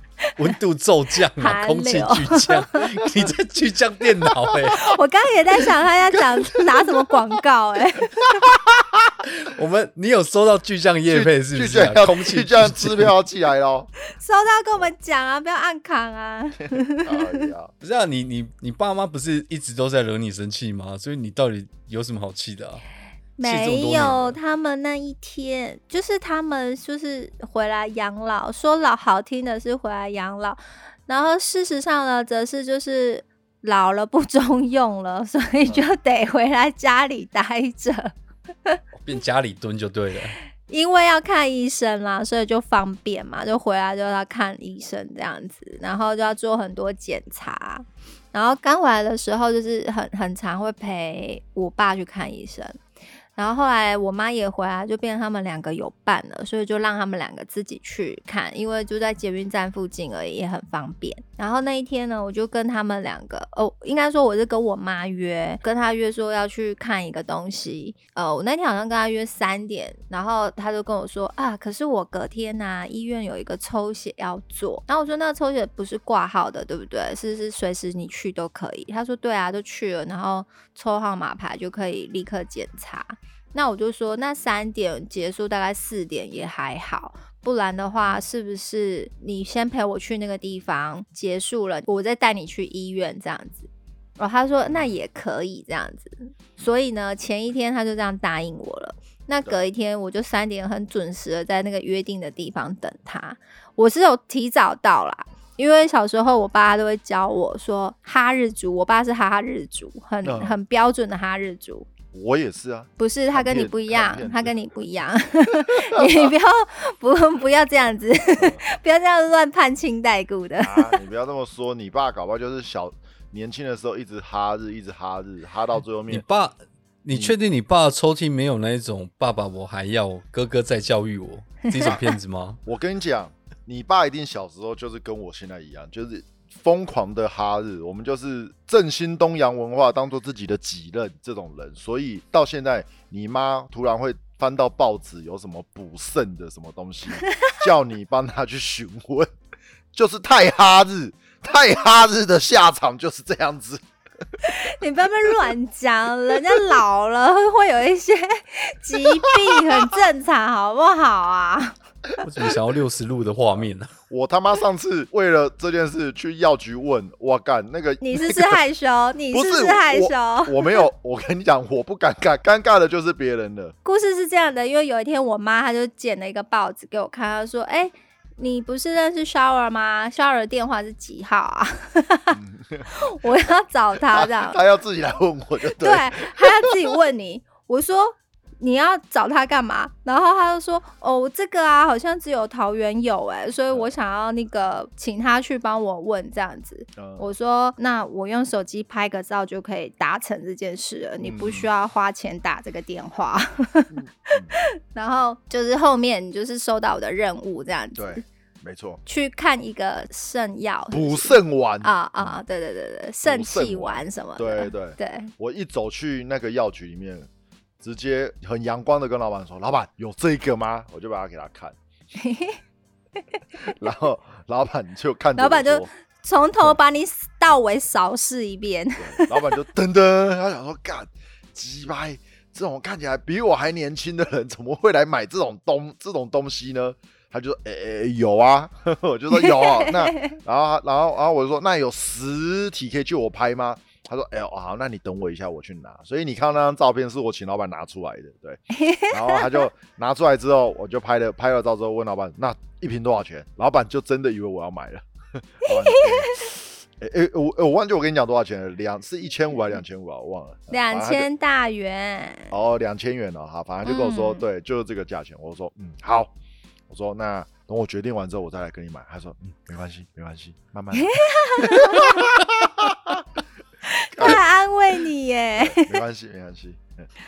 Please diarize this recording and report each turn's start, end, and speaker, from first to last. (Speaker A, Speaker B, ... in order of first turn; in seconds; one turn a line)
Speaker A: 0.2-0.5
Speaker B: 0.4-4.9
Speaker A: 1.3-2.9
Speaker C: 3.0-3.3
Speaker A: 4.7-8.5
Speaker C: 6.3-7.1
Speaker C: 8.5-9.1
Speaker B: 9.4-13.1
Speaker C: 11.1-13.9
Speaker A: 14.1-17.5
Speaker C: 16.8-17.7
Speaker B: 17.8-22.9
Speaker A: 23.4-38.1
Speaker B: 23.4-24.4
Speaker C: 35.7-35.9
Speaker B: 39.0-40.4
Speaker A: 40.7-52.8
Speaker A: 53.4-111.9
Speaker C: 94.7-94.9
Speaker C: 110.2-110.6
Speaker C: 112.1-114.5
Speaker A: 113.0-121.0
Speaker C: 115.7-116.3
Speaker C: 118.4-118.6
Speaker C: 120.6-126.2
Speaker B: 126.1-132.6
Speaker A: 131.7-132.0
Speaker C: 132.6-149.3
Speaker C: 149.9-153.8
Speaker A: 154.4-161.8
Speaker C: 159.3-159.8
Speaker B: 162.2-163.9
Speaker C: 163.5-168.6
Speaker A: 168.0-170.8
Speaker C: 169.3-173.7
Speaker A: 173.8-184.6
Speaker C: 182.3-182.9
Speaker C: 184.1-186.7
Speaker A: 185.8-208.2
Speaker C: 196.9-197.3
Speaker C: 201.2-201.7
Speaker C: 203.9-204.5
Speaker C: 207.9-209.0
Speaker A: 209.1-215.3
Speaker C: 210.9-212.4
Speaker C: 213.2-217.3
Speaker C: 217.8-221.8
Speaker A: 222.2-222.6
Speaker C: 223.7-225.9
Speaker A: 225.3-229.4
Speaker C: 229.0-261.3
Speaker A: 239.3-240.4
Speaker A: 248.7-249.6
Speaker A: 255.7-256.4
Speaker A: 260.7-262.5
Speaker C: 262.5-266.3
Speaker A: 263.8-264.4
Speaker C: 266.9-273.2
Speaker A: 270.9-272.3
Speaker A: 273.8-276.0
Speaker C: 274.1-274.4
Speaker C: 275.6-277.1